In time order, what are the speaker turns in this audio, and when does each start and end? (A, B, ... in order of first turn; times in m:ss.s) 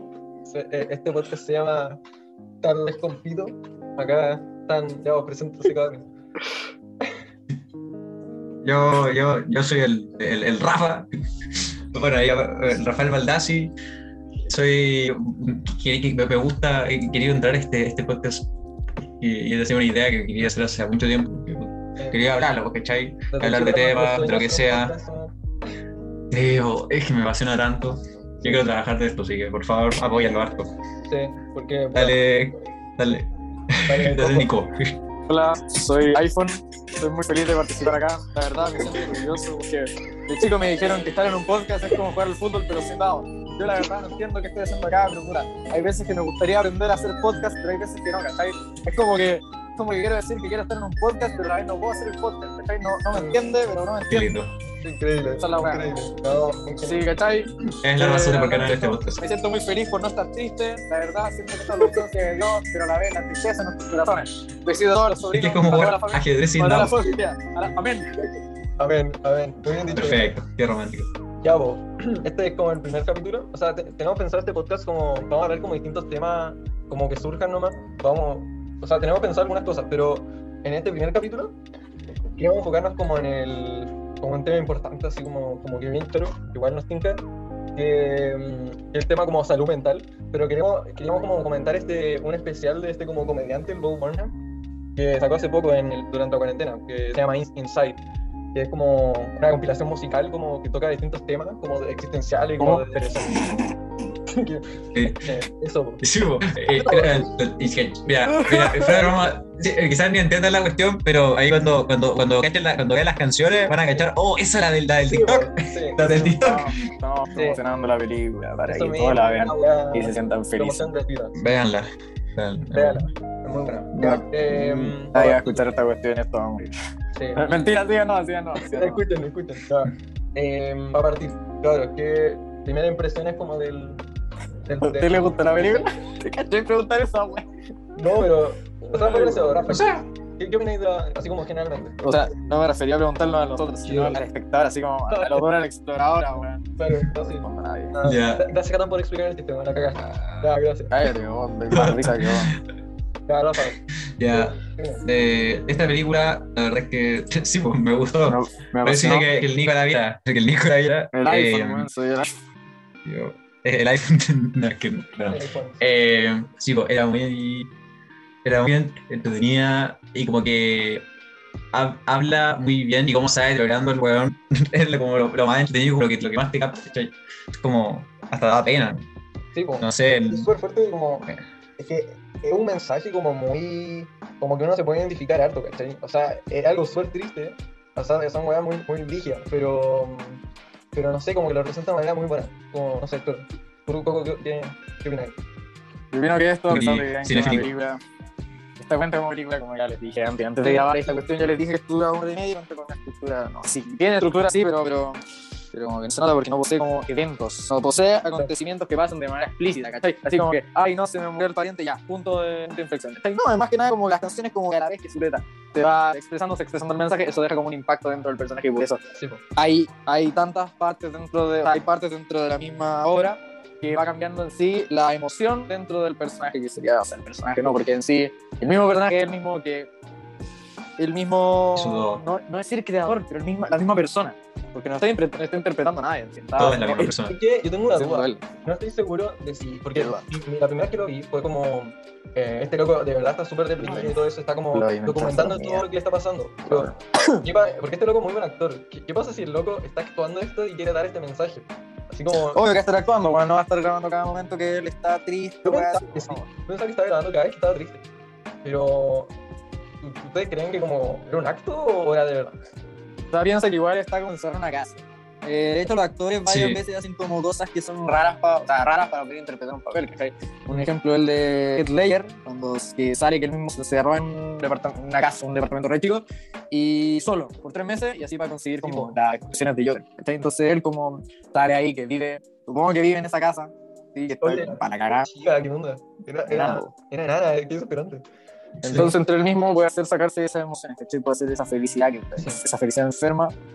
0:00.5-0:02.0 A
0:02.6-0:06.1 A
0:08.6-0:13.7 B
0:14.5-0:18.5 B
0:19.2-0:24.9 B
0:23.3-0:25.3 A
0:26.3-0:30.7 B
0:31.1-0:32.2 A
0:31.9-0:35.0 B
0:33.8-0:34.5 A
0:35.3-0:54.3 C
0:53.1-0:53.4 A
0:54.1-0:54.5 B
0:54.8-0:57.0 A
0:55.4-0:55.9 C
0:56.8-1:08.2 C
0:57.8-0:59.2 B
1:05.3-1:07.0 B
1:08.8-1:10.3 A
1:09.9-1:11.1 B
1:11.4-1:21.5 A
1:22.4-1:34.3 A
1:35.0-1:38.0 A
1:38.5-1:43.5 A
1:42.6-1:43.6 C
1:44.4-1:44.6 A
1:44.9-1:45.3 B
1:45.2-1:46.0 A
1:46.0-1:56.8 B
1:46.8-1:47.2 A
1:48.2-1:49.1 C
1:48.9-1:49.2 A
1:55.1-1:56.4 A
1:56.0-2:00.9 C
1:57.3-1:57.6 A
1:58.6-2:01.4 A
2:01.4-2:03.1 B
2:02.7-2:05.7 A
2:03.9-2:06.7 C
2:07.2-2:07.4 A
2:07.3-2:09.0 C
2:08.6-2:14.0 A
2:14.6-2:15.5 A
2:14.8-2:17.4 C
2:18.0-2:22.4 A
2:18.9-2:19.7 C
2:19.7-2:20.0 B
2:22.0-2:27.9 C
2:23.8-2:24.2 A
2:25.1-2:25.5 A
2:26.8-2:30.9 A
2:28.0-2:28.4 B
2:30.1-2:32.5 C
2:31.7-2:32.6 B
2:33.3-2:35.0 A
2:34.2-2:41.9 B
2:38.2-2:39.3 C
2:41.1-2:42.3 C
2:43.0-2:47.7 B
2:45.3-2:45.8 A
2:48.4-2:51.1 B
2:51.7-2:59.1 B
2:59.5-3:10.4 A
2:59.8-3:00.5 B
3:10.9-3:15.4 A
3:16.1-3:18.0 C
3:16.7-3:17.7 B
3:18.8-3:25.2 C
3:20.6-3:21.3 A
3:25.7-3:39.0 C
3:39.2-3:39.4 A
3:39.6-3:49.9 C
3:51.0-3:57.1 C
3:51.7-3:52.2 B
3:56.6-3:57.4 B
3:57.2-4:12.6 A
3:57.9-3:58.4 C
4:00.0-4:00.2 C
4:03.8-4:04.2 C
4:04.7-4:05.8 C
4:06.7-4:07.4 C
4:12.3-4:16.4 C
4:15.6-4:18.0 A
4:18.6-4:19.3 A
4:20.0-4:22.6 A
4:23.3-4:45.3 C
4:26.4-4:26.8 B
4:38.8-4:39.1 A
4:44.4-4:48.2 A
4:46.5-4:46.9 C
4:48.8-4:53.5 C
4:48.8-4:49.1 A